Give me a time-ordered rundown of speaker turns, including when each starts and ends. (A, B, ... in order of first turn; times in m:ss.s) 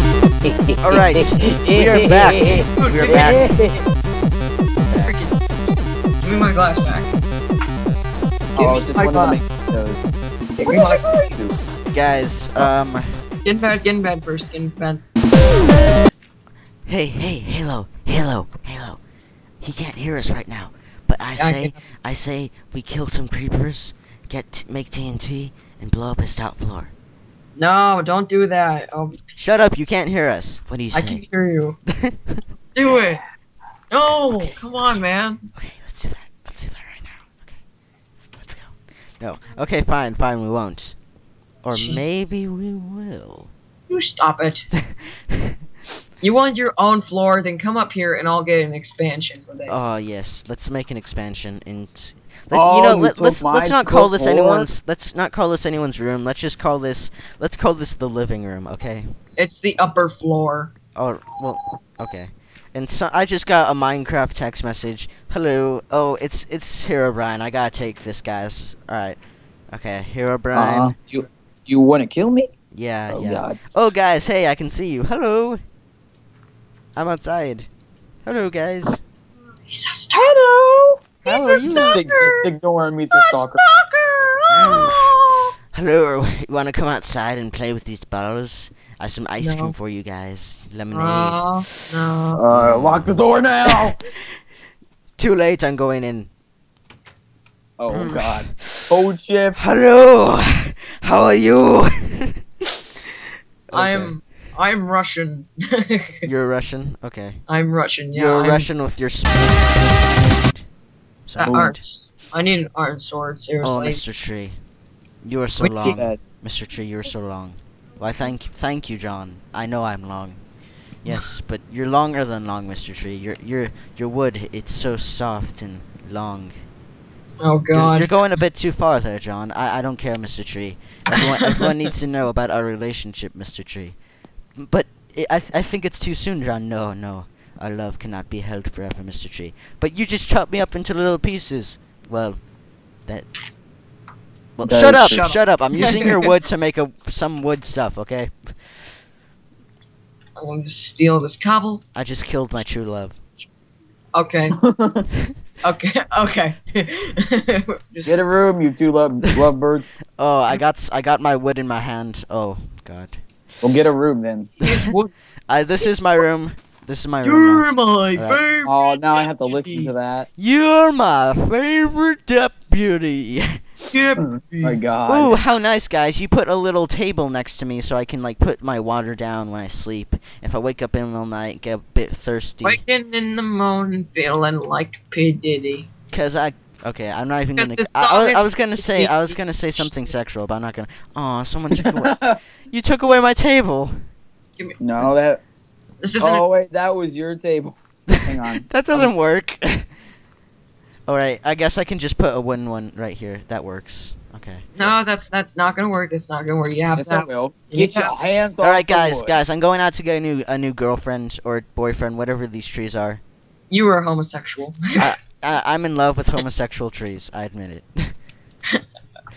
0:00.4-0:03.8 A
0:00.8-0:03.5 B
0:02.8-0:04.2 C
0:04.8-0:05.1 B
0:05.0-0:05.4 C
0:06.2-0:07.1 C
0:08.5-0:09.4 C
0:08.6-0:11.5 A
0:10.6-0:11.3 C
0:11.9-0:13.2 B
0:13.4-0:15.0 C
0:16.9-0:19.0 B
0:19.6-0:26.9 B
0:21.4-0:21.8 C
0:27.6-0:29.2 C
0:29.4-0:31.2 B
0:30.9-0:31.8 C
0:32.0-0:32.4 B
0:32.7-0:33.2 C
0:33.9-0:35.4 C
0:34.3-0:35.0 B
0:35.5-0:37.5 B
0:38.2-0:41.0 B
0:41.6-0:43.5 B
0:41.7-0:42.3 C
0:43.9-0:44.7 C
0:44.9-0:45.4 B
0:46.2-0:50.0 C
0:49.7-0:59.1 B
0:52.5-0:54.7 A
0:59.4-1:00.7 C
1:01.0-1:10.9 B
1:10.5-1:12.5 A
1:12.7-1:15.6 B
1:13.1-1:13.7 A
1:17.0-1:17.7 B
1:18.2-1:19.0 B
1:19.7-1:22.5 C
1:21.2-1:22.0 B
1:21.6-1:23.6 A
1:23.1-1:25.5 C
1:24.5-1:25.1 B
1:25.7-1:31.6 B
1:29.4-1:29.7 C
1:30.9-1:32.4 C
1:32.4-1:34.0 A
1:32.5-1:33.9 B
1:35.2-1:36.3 B
1:37.8-1:39.6 A
1:37.9-1:38.9 B
1:39.6-1:42.4 B
1:43.7-1:44.2 B
1:43.7-1:46.2 C
1:46.2-1:47.4 B
1:47.5-1:48.7 C
1:48.1-1:50.6 B
1:51.3-1:51.7 B
1:51.4-1:54.0 C
1:51.4-1:51.7 A
1:53.6-1:54.6 B
1:55.2-2:00.4 B
1:55.6-1:56.0 C
1:55.8-1:56.2 A
2:01.0-2:06.6 B
2:07.4-2:08.1 C
2:07.7-2:14.0 B
2:11.1-2:11.7 C
2:14.6-2:22.4 B
2:23.0-2:23.3 B
2:24.6-2:28.9 B
2:24.6-2:25.3 A
2:25.0-2:26.2 C
2:30.4-2:31.8 C
2:31.9-2:33.2 B
2:34.1-2:34.6 C
2:34.6-2:35.0 A
2:35.6-2:38.2 C
2:38.0-2:39.9 A
2:40.2-2:43.2 B
2:43.6-2:44.5 A
2:44.6-2:45.1 C
2:45.5-2:48.4 B
2:47.2-2:49.9 C
2:48.6-2:50.3 A
2:50.4-2:53.6 B
2:53.9-2:54.8 C
2:54.2-2:55.4 A
2:55.0-3:02.8 B
3:02.6-3:05.9 C
3:06.1-3:14.0 B
3:07.6-3:10.0 C
3:11.8-3:12.4 A
3:14.6-3:15.2 C
3:14.8-3:15.4 A
3:16.0-3:16.4 C
3:16.2-3:19.1 A
3:18.1-3:19.9 B
3:21.1-3:24.7 B
3:24.8-3:28.3 C
3:27.0-3:29.4 A
3:28.6-3:33.2 B
3:33.7-3:35.1 C
3:34.9-3:38.1 B